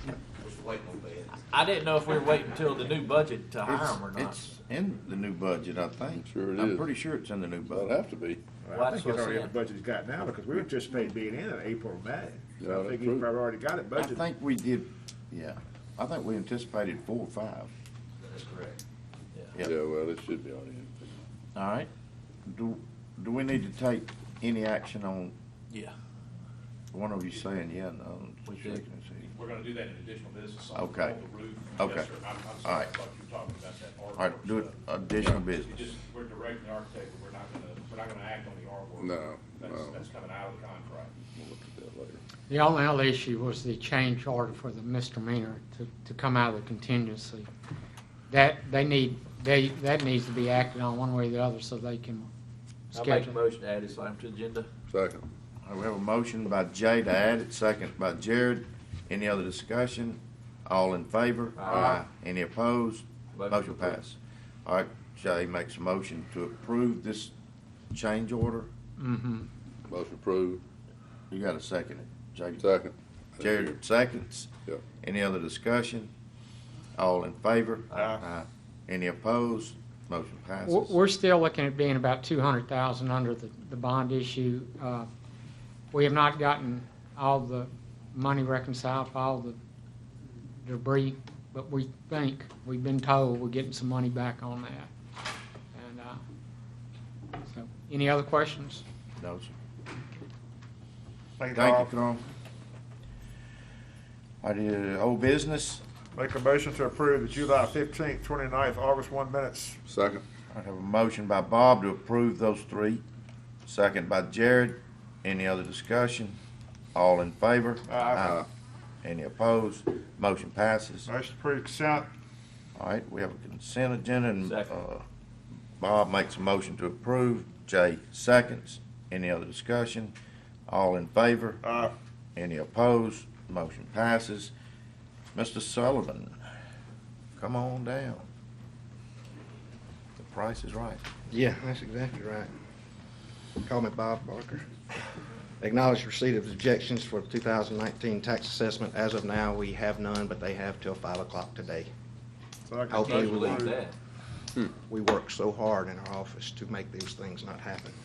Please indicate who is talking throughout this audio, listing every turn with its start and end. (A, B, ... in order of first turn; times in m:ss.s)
0:00.4-0:01.3 A
0:01.4-0:04.5 B
0:03.6-0:07.9 C
0:06.2-0:06.9 D
0:07.7-0:08.4 D
0:08.6-0:14.2 E
0:08.7-0:09.5 B
0:12.6-0:13.3 D
0:14.0-0:17.7 C
0:18.2-0:18.8 B
0:19.6-0:21.2 D
0:21.5-0:21.9 C
0:22.4-0:25.3 C
0:26.9-0:29.2 C
0:28.5-0:28.8 B
0:29.2-0:41.1 A
0:30.7-0:31.2 C
0:31.8-0:32.1 C
0:32.6-0:32.9 C
0:34.2-0:35.7 C
0:39.0-0:40.0 D
0:41.4-0:42.2 D
0:42.5-0:47.5 F
0:48.3-0:52.3 F
0:52.9-0:53.3 F
0:52.9-0:54.7 B
0:54.9-0:55.2 D
0:55.6-1:07.3 C
1:01.6-1:01.9 B
1:01.8-1:02.0 D
1:03.3-1:04.0 B
1:07.9-1:08.7 C
1:09.0-1:09.5 F
1:09.9-1:10.6 D
1:11.3-1:12.7 C
1:12.6-1:13.8 D
1:13.4-1:16.1 C
1:17.0-1:21.0 C
1:20.7-1:25.1 F
1:25.9-1:29.6 F
1:30.6-1:34.9 F
1:35.7-1:36.2 F
1:37.4-1:38.8 F
1:39.2-1:39.5 C
1:41.4-1:41.8 E
1:41.5-1:42.2 C
1:44.4-1:45.8 C
1:46.1-1:49.8 E
1:49.9-1:50.2 D
1:50.5-1:53.0 C
1:53.6-1:56.4 C
1:56.9-1:58.4 C
1:57.9-1:58.3 E
1:58.2-1:58.4 D
1:59.0-2:01.1 C
2:01.1-2:02.1 E
2:02.8-2:05.0 C
2:04.4-2:04.7 B
2:05.8-2:10.1 C
2:10.7-2:11.6 C
2:11.6-2:11.9 E
2:12.4-2:14.5 C
2:15.3-2:16.3 C
2:17.4-2:18.2 C
2:20.2-2:21.0 C
2:21.3-2:22.5 G
2:23.6-2:24.7 G
2:25.6-2:31.9 G
2:32.7-2:33.8 E
2:32.9-2:33.7 G
2:33.0-2:33.9 B
2:34.9-2:38.0 G